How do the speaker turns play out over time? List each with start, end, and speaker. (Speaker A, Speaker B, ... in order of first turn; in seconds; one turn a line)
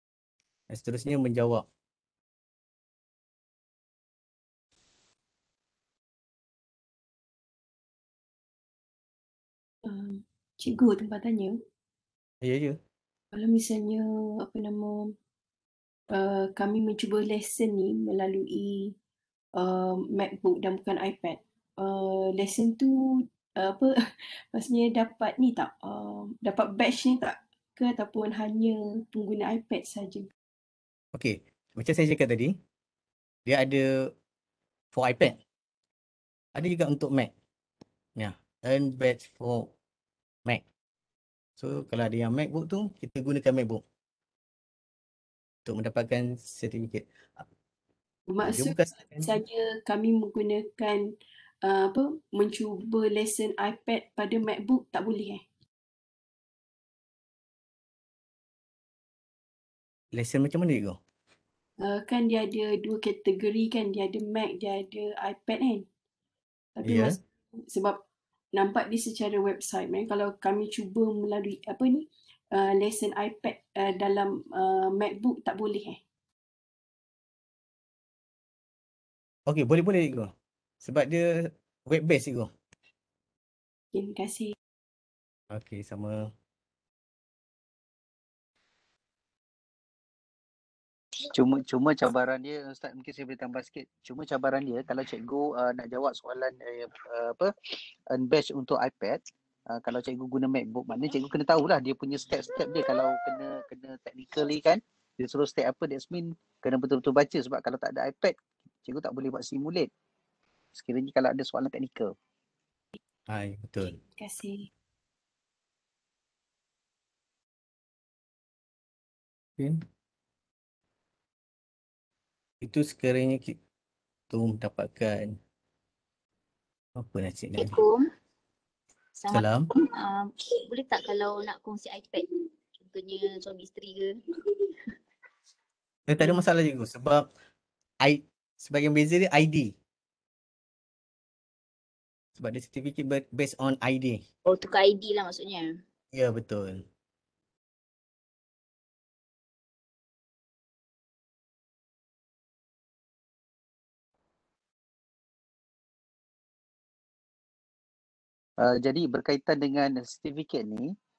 Speaker A: 0.7-1.6
Speaker B: 9.8-11.6
Speaker A: 12.4-12.8
Speaker B: 13.3-15.1
Speaker B: 16.1-18.9
Speaker B: 19.6-30.3
Speaker A: 31.1-32.6
Speaker A: 33.5-34.1
Speaker A: 34.9-35.4
Speaker A: 36.5-37.3
Speaker A: 38.1-39.7
Speaker A: 41.6-43.8
Speaker A: 45.6-47.5
Speaker B: 48.3-51.1
Speaker A: 48.4-49.4
Speaker B: 51.6-55.4
Speaker A: 60.1-61.0
Speaker B: 61.8-65.8
Speaker B: 66.8-68.0
Speaker A: 66.8-67.2
Speaker B: 68.5-76.0
Speaker A: 79.5-82.5
Speaker B: 83.9-84.5
Speaker A: 85.5-86.3
Speaker C: 91.3-97.5
Speaker C: 98.1-109.9
Speaker C: 110.7-112.1
Speaker A: 113.3-114.0
Speaker B: 114.2-114.7
Speaker A: 119.6-119.8
Speaker A: 122.6-123.6
Speaker A: 124.3-125.4
Speaker A: 127.0-127.8
Speaker D: 127.5-128.1
Speaker D: 129.2-134.2
Speaker A: 129.3-129.7
Speaker A: 136.1-137.2
Speaker A: 138.0-139.7
Speaker A: 142.3-144.2
Speaker D: 144.4-145.7
Speaker A: 146.1-146.8
Speaker C: 158.6-160.9